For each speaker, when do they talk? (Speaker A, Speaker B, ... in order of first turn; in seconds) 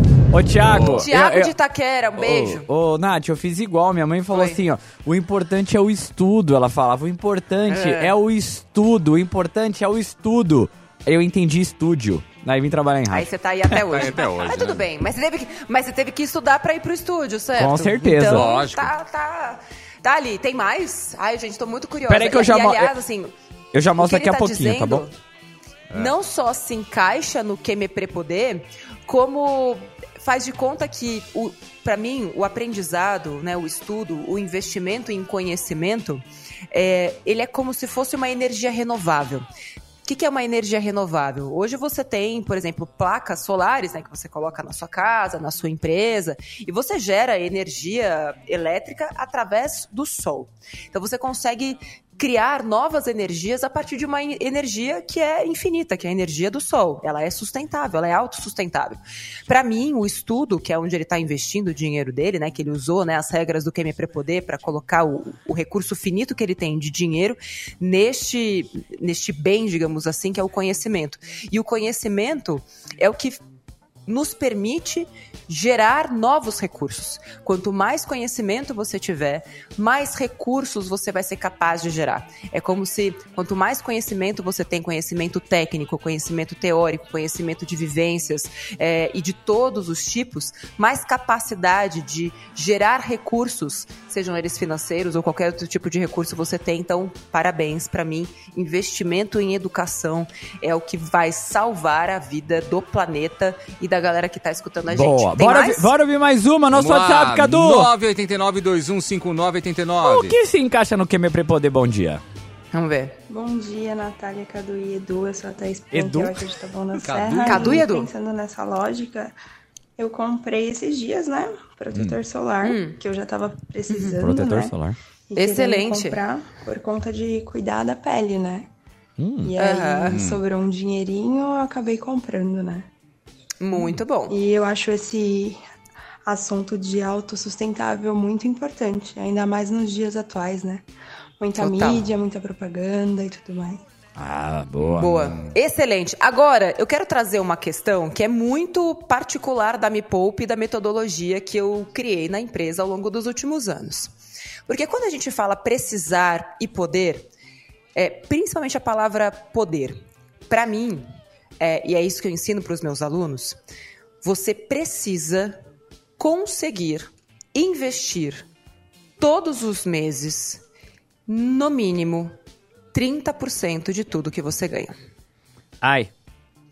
Speaker A: 0.3-1.5, 2.2-13.3, 17.6-18.5, 22.1-22.9, 23.7-25.0, 104.9-107.9, 110.0-112.2, 115.9-116.4, 124.2-125.0, 129.2-129.5, 144.2-145.2, 175.8-176.1
Speaker B: 0.6-1.1, 13.7-14.9, 18.3-18.9, 106.7-110.3, 117.0-117.8, 130.1-130.4
Speaker C: 1.0-2.7, 4.3-4.6, 7.7-8.1, 13.1-23.3, 24.0-25.1, 25.9-39.5, 40.0-73.4, 74.1-105.9, 112.7-113.2, 117.5-118.1, 122.6-123.0, 123.9-124.2, 125.4-126.2, 129.6-130.2, 133.6-134.4, 141.6-142.1, 144.9-154.1, 154.7-157.3, 158.0-161.1, 161.6-163.6, 164.2-165.6, 166.2-168.5, 169.2-170.6, 171.3-172.3, 172.9-175.0
Speaker D: 113.3-119.4, 120.0-124.8, 125.3-128.7, 129.4-132.9, 133.8-135.6, 136.3-140.9, 141.4-143.8